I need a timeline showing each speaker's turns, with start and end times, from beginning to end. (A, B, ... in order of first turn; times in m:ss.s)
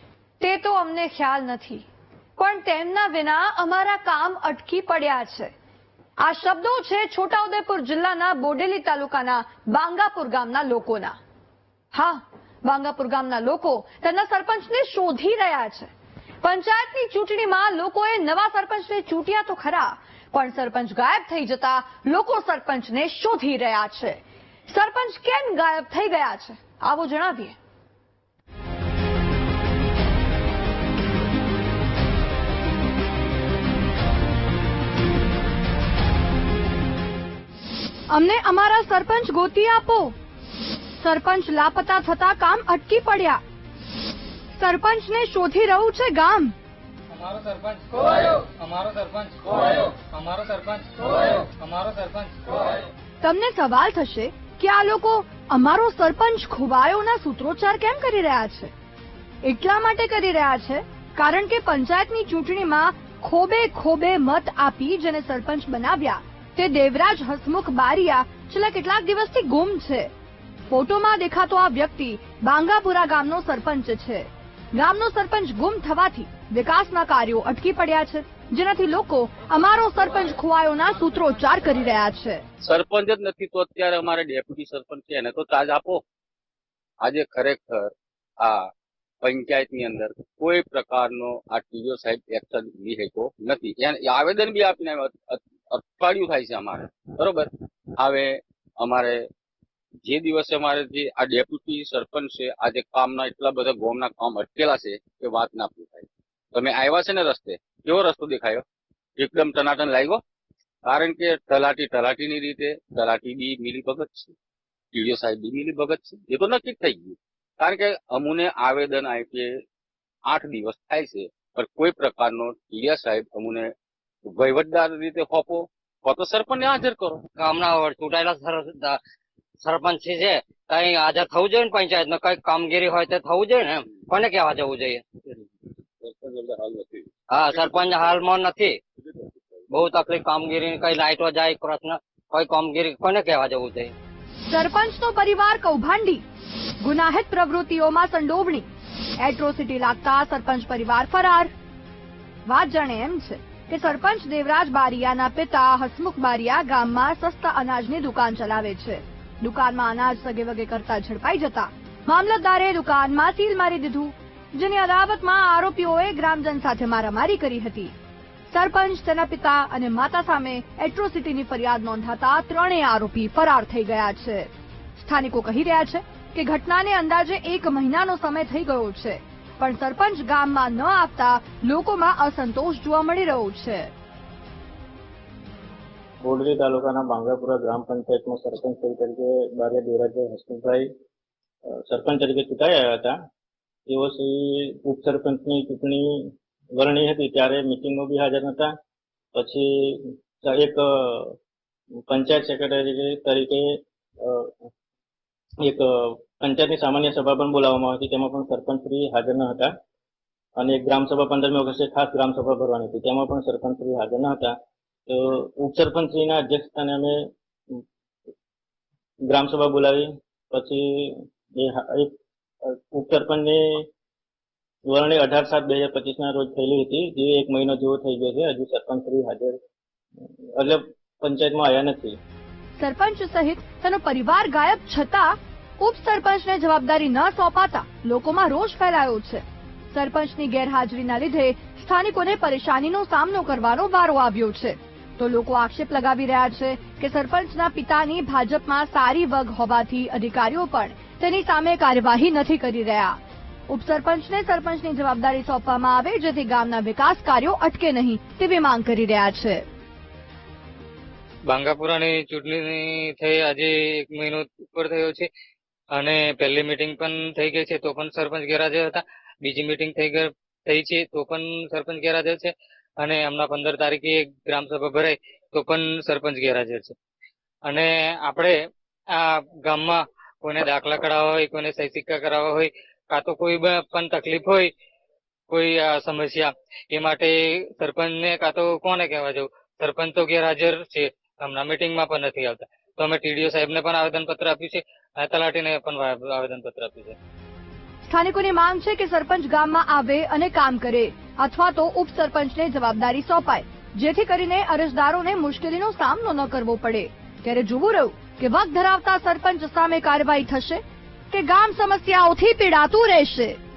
0:00.4-0:01.9 A
0:02.4-0:05.5 A
0:06.2-0:11.2 A
0:11.9-0:15.9 A
0:16.4-0:27.6 A
0:38.1-0:40.1 A
0:41.0-0:43.4 A
0:44.6-0:46.6 A
0:47.1-0:52.8 B
0:53.2-0:58.7 A
0:59.4-1:10.1 A
1:10.7-1:22.4 A
1:22.6-1:26.0 C
1:27.0-1:28.7 C
1:29.2-1:39.2 C
1:40.0-1:48.6 C
1:49.2-1:50.2 C
1:50.9-1:54.4 C
1:54.9-1:59.5 C
2:00.3-2:03.7 C
2:04.2-2:07.3 C
2:07.4-2:09.0 D
2:09.6-2:15.0 D
2:16.0-2:18.3 C
2:17.3-2:18.8 D
2:19.7-2:23.9 D
2:24.5-2:26.2 A
2:26.8-2:28.7 A
2:29.2-2:31.5 A
2:32.5-2:47.9 A
2:48.5-3:03.9 A
3:06.2-3:10.9 E
3:11.7-3:13.2 E
3:13.9-3:18.8 E
3:19.3-3:21.4 E
3:22.1-3:24.7 E
3:25.6-3:29.7 E
3:30.6-3:34.6 E
3:35.1-3:37.8 E
3:39.3-3:43.9 E
3:44.9-3:49.6 E
3:50.6-3:52.2 E
3:52.8-4:19.6 A
4:21.5-4:25.3 B
4:25.9-4:37.0 B
4:37.7-4:38.6 B
4:39.1-4:44.7 B
4:45.5-4:57.2 B
4:58.0-5:13.6 A